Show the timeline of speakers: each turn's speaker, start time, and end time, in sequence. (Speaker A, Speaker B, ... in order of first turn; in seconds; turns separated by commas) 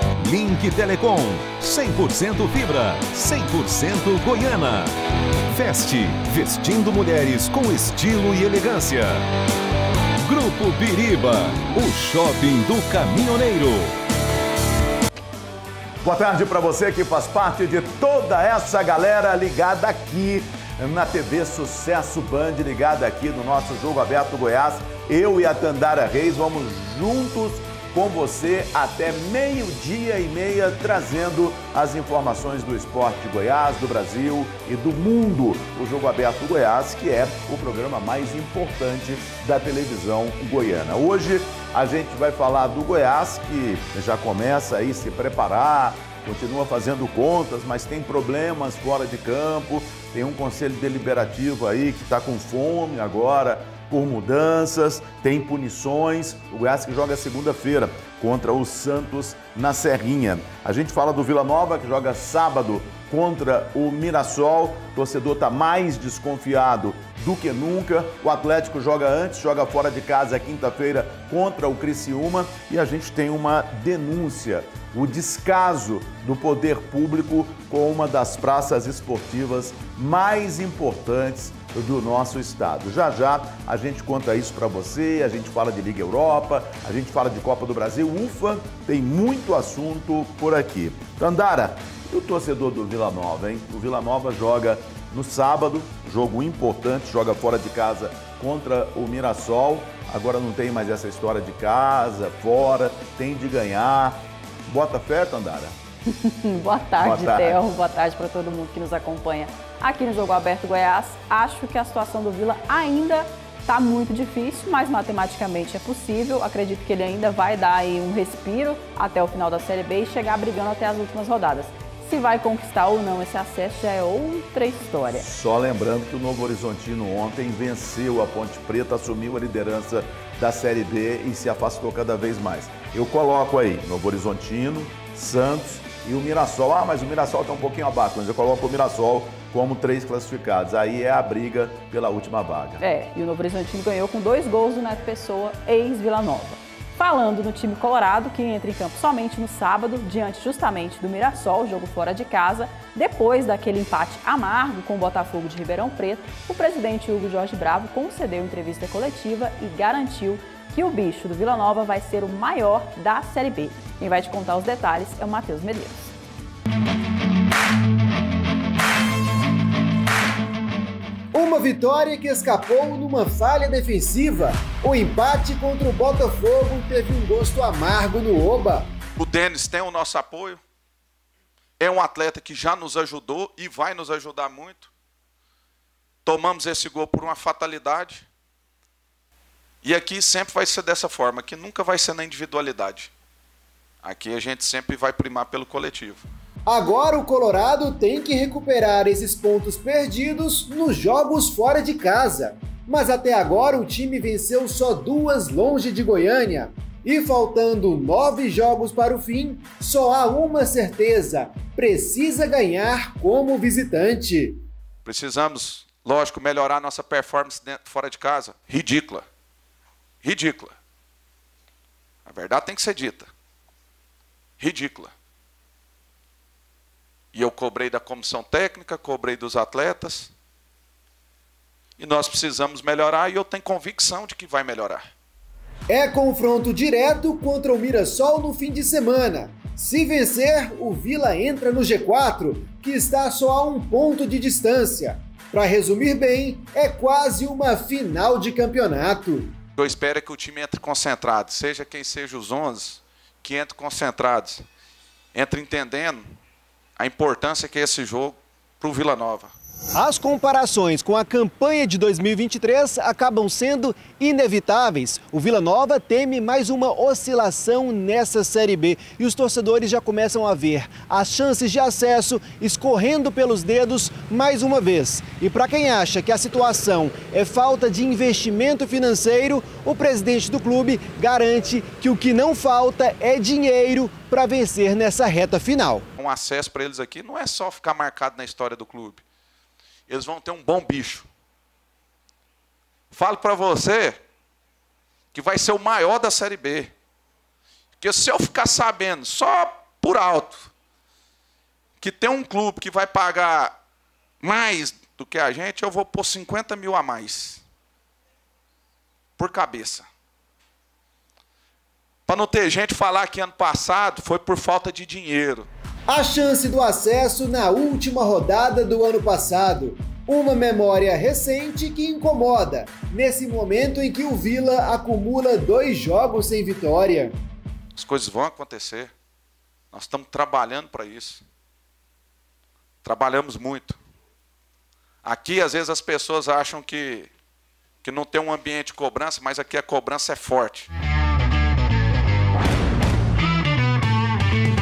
Speaker A: 0.2-4.9, Speaker A: 5.5-9.3, Speaker A: 10.2-13.9, Speaker B: 16.0-105.8, Speaker C: 106.1-125.3, Speaker B: 107.0-107.6, Speaker B: 125.1-142.8, Speaker C: 142.8-166.2, Speaker D: 171.3-178.9, Speaker E: 179.2-180.6, Speaker E: 181.8-184.9, Speaker E: 186.2-188.3, Speaker E: 189.8-193.1, Speaker E: 194.0-196.3, Speaker D: 196.7-214.6, Speaker E: 215.1-219.2, Speaker E: 220.2-220.8, Speaker E: 222.3-223.3, Speaker E: 224.6-225.1, Speaker E: 227.3-230.3, Speaker E: 232.0-235.0, Speaker D: 235.9-249.5, Speaker E: 249.8-254.7, Speaker E: 255.3-256.3, Speaker E: 257.0-259.5, Speaker D: 259.9-286.1, Speaker E: 286.2-289.2, Speaker E: 290.1-291.3, Speaker E: 293.1-294.2, Speaker E: 295.3-296.9, Speaker E: 298.0-300.7, Speaker E: 302.0-303.8, Speaker E: 304.4-307.6, Speaker E: 309.4-310.1, Speaker E: 312.3-315.7, Speaker D: 316.1-327.4, Speaker E: 327.9-329.1, Speaker E: 329.9-331.4, Speaker E: 333.0-334.0, Speaker E: 335.2-337.3, Speaker E: 338.0-340.9